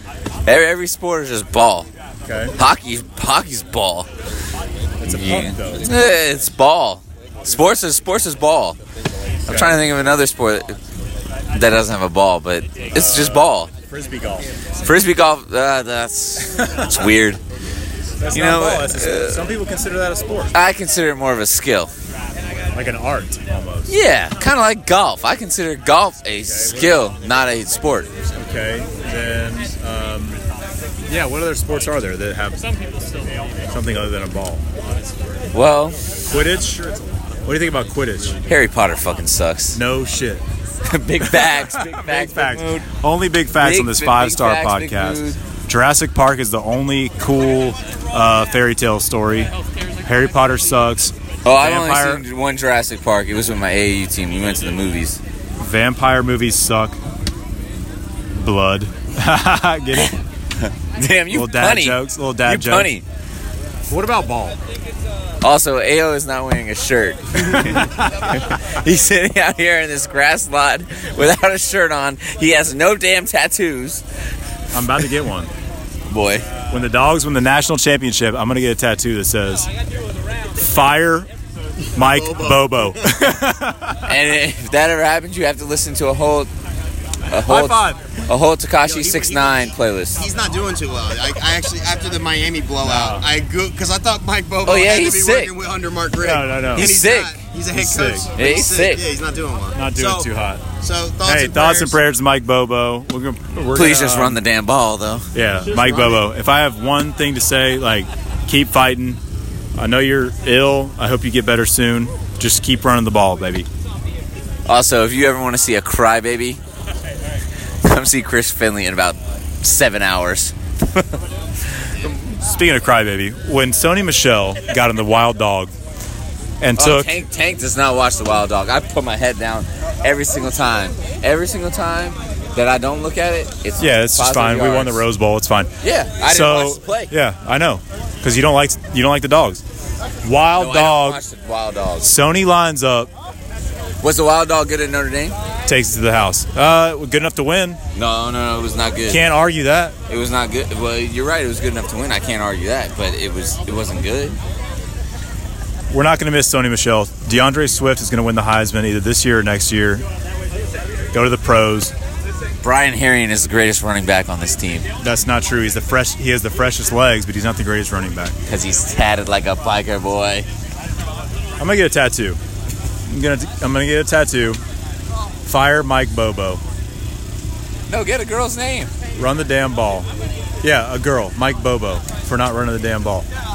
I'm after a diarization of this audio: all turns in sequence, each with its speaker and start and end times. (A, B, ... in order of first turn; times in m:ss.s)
0:00.5-0:01.9 A
0:02.3-0:02.6 B
0:02.6-0:04.1 A
0:05.0-0:05.9 B
0:05.1-0:08.8 A
0:09.5-0:09.8 B
0:09.5-0:10.8 A
0:11.5-0:13.7 A
0:12.9-0:14.5 B
0:14.8-0:17.4 A
0:16.6-0:16.8 B
0:18.2-0:20.6 B
0:18.3-0:19.5 A
0:20.5-0:21.9 A
0:22.7-0:24.0 B
0:23.9-0:28.1 A
0:26.4-0:27.0 B
0:28.3-0:30.4 B
0:31.1-0:32.7 B
0:33.7-0:34.6 B
0:35.5-0:36.0 A
0:36.3-0:38.4 B
0:38.5-0:39.8 A
0:39.7-0:40.4 B
0:40.9-0:42.9 A
0:41.2-0:49.5 B
0:43.6-0:45.4 A
0:50.0-0:52.2 B
0:51.4-0:55.2 A
0:55.6-0:57.0 B
0:58.4-1:00.2 B
1:00.8-1:03.0 A
1:01.3-1:02.9 B
1:03.9-1:04.6 B
1:05.4-1:14.0 A
1:07.5-1:08.0 B
1:14.7-1:15.5 B
1:16.1-1:16.5 A
1:16.7-1:19.7 B
1:20.6-1:21.3 B
1:22.0-1:24.0 B
1:22.0-1:23.0 C
1:24.1-1:26.5 A
1:27.3-1:30.2 A
1:27.4-1:28.0 B
1:28.8-1:40.3 C
1:32.8-1:33.3 B
1:34.6-1:35.5 A
1:36.2-1:36.9 B
1:36.8-1:37.4 A
1:37.7-1:38.3 B
1:38.4-1:39.0 A
1:39.8-1:40.6 B
1:40.8-1:42.0 C
1:41.2-1:44.4 B
1:43.7-1:45.3 A
1:45.3-1:49.2 B
1:49.8-1:53.7 B
1:54.7-1:56.6 A
1:57.8-2:01.1 A
2:02.3-2:05.7 B
2:06.6-2:07.2 B
2:06.8-2:15.0 A
2:13.8-2:15.7 B
2:15.8-2:17.1 A
2:16.2-2:19.6 B
2:20.2-2:21.2 B
2:20.6-2:22.1 A
2:22.0-2:23.1 B
2:24.0-2:25.4 A
2:25.7-2:27.8 B
2:27.9-2:29.2 A
2:29.1-2:30.0 B
2:30.1-2:34.4 A
2:35.9-2:40.0 B
2:41.1-2:41.9 B
2:42.6-2:44.8 A
2:45.0-2:48.4 B
2:48.5-2:50.5 A
2:51.6-2:52.4 B
2:53.1-2:54.6 B
2:55.4-2:56.6 B
2:57.9-2:58.9 A
2:59.2-3:00.1 B
3:00.6-3:03.3 B